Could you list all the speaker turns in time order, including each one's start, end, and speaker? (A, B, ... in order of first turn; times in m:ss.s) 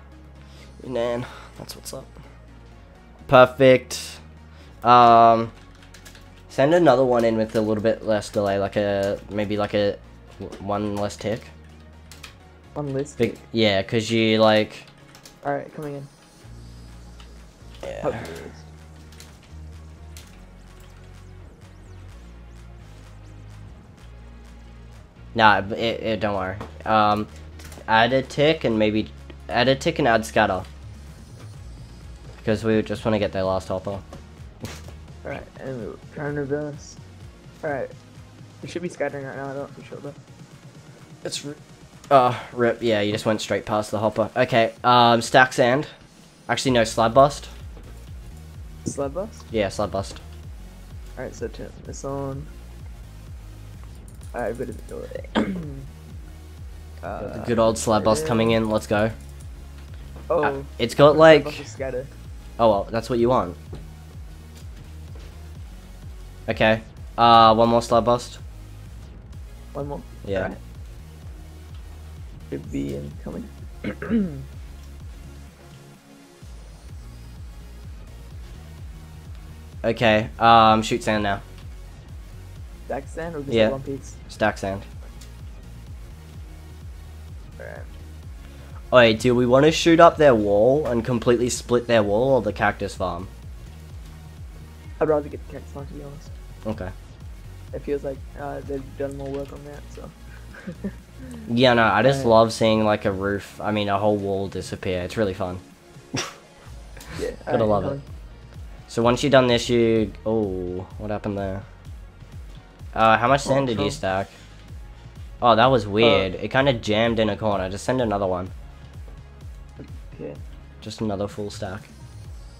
0:00.8-0:02.1 A
0:03.3-0:04.2 A
0:04.8-0:05.5 A
0:06.5-0:11.5 A
0:12.7-0:13.4 B
0:13.2-0:14.9 A
0:15.4-0:16.1 B
0:17.8-0:18.2 A
0:18.0-0:18.6 B
0:25.3-0:27.3 A
0:27.8-0:30.7 A
0:32.4-0:34.0 A
0:35.2-0:37.0 B
0:37.6-0:37.9 B
0:38.6-0:40.2 B
0:41.2-0:41.6 A
0:42.1-0:45.9 A
0:46.5-0:47.5 A
0:48.8-0:49.4 B
0:49.5-0:50.2 A
0:51.2-0:52.5 B
0:54.3-0:55.9 B
0:57.0-0:58.6 B
0:57.2-0:59.1 A
1:00.3-1:02.1 B
1:00.4-1:01.6 A
1:02.6-1:03.6 A
1:06.5-1:08.4 A
1:09.7-1:10.6 B
1:10.2-1:10.5 A
1:12.5-1:14.4 B
1:19.8-1:21.4 A
1:22.9-1:24.2 B
1:23.5-1:24.8 A
1:27.6-1:27.9 B
1:28.9-1:33.3 A
1:35.0-1:36.3 B
1:36.6-1:36.9 A
1:37.7-1:41.4 B
1:41.5-1:45.6 A
1:42.0-1:42.4 B
1:47.2-1:48.0 B
1:47.5-1:48.0 A
1:48.9-1:51.6 A
1:52.9-1:54.3 A
1:53.4-1:54.0 B
1:55.4-1:58.5 A
1:56.0-1:56.3 B
1:59.8-2:00.4 B
2:00.8-2:01.9 A